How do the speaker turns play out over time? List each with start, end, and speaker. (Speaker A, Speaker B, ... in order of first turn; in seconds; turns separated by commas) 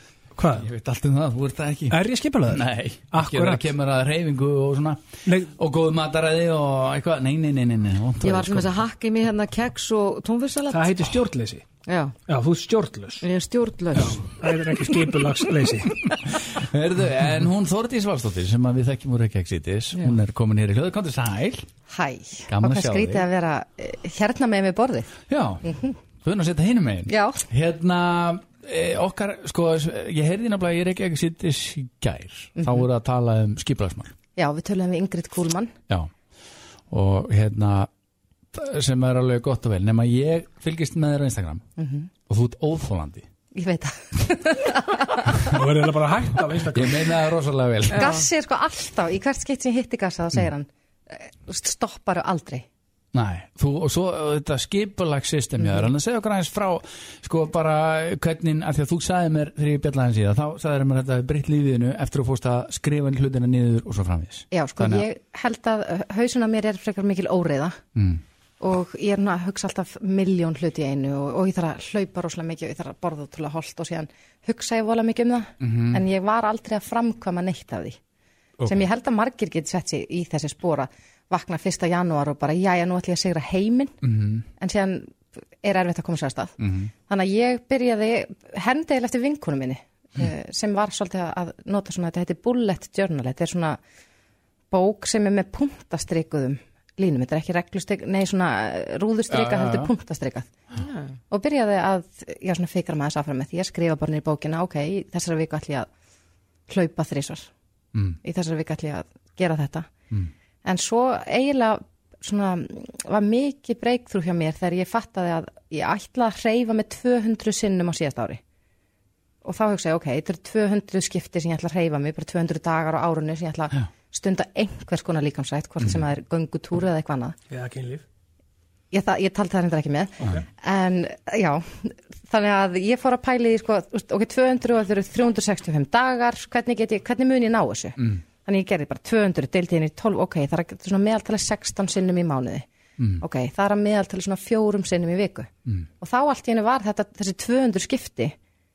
Speaker A: 0.4-0.7, Speaker B: 0.5-2.0, Speaker A: 1.9-3.7, Speaker B: 2.5-8.7, Speaker A: 5.3-5.5, Speaker C: 8.2-10.9, Speaker A: 10.7-11.7, Speaker C: 11.9-12.2, Speaker A: 12.3-13.2, Speaker C: 13.2-14.3, Speaker A: 13.9-15.9, Speaker B: 16.1-21.7, Speaker D: 21.9-25.1, Speaker B: 22.5-23.3, Speaker B: 25.3-34.1, Speaker D: 25.6-26.0, Speaker D: 27.1-27.4, Speaker D: 32.6-32.9, Speaker D: 34.4-35.7, Speaker B: 36.9-37.9, Speaker B: 38.5-41.6, Speaker D: 41.8-42.1, Speaker B: 42.3-43.3, Speaker D: 43.5-45.6, Speaker A: 45.5-47.1, Speaker B: 46.7-48.1, Speaker D: 47.9-52.6, Speaker C: 47.9-48.2, Speaker B: 53.1-65.0, Speaker D: 64.5-67.8, Speaker B: 68.0-68.2, Speaker D: 68.6-78.0, Speaker B: 75.6-76.0, Speaker D: 78.7-83.9, Speaker B: 84.0-84.5, Speaker D: 84.6-86.6, Speaker B: 86.6-86.9, Speaker D: 87.1-93.8, Speaker D: 94.7-100.5, Speaker B: 99.3-99.9, Speaker C: 100.8-101.1, Speaker D: 101.3-105.9, Speaker D: 106.7-107.5, Speaker D: 108.2-109.9, Speaker D: 110.6-118.4, Speaker D: 119.4-127.4, Speaker A: 127.5-128.0, Speaker D: 128.9-142.7, Speaker D: 143.2-145.5, Speaker D: 146.0-148.3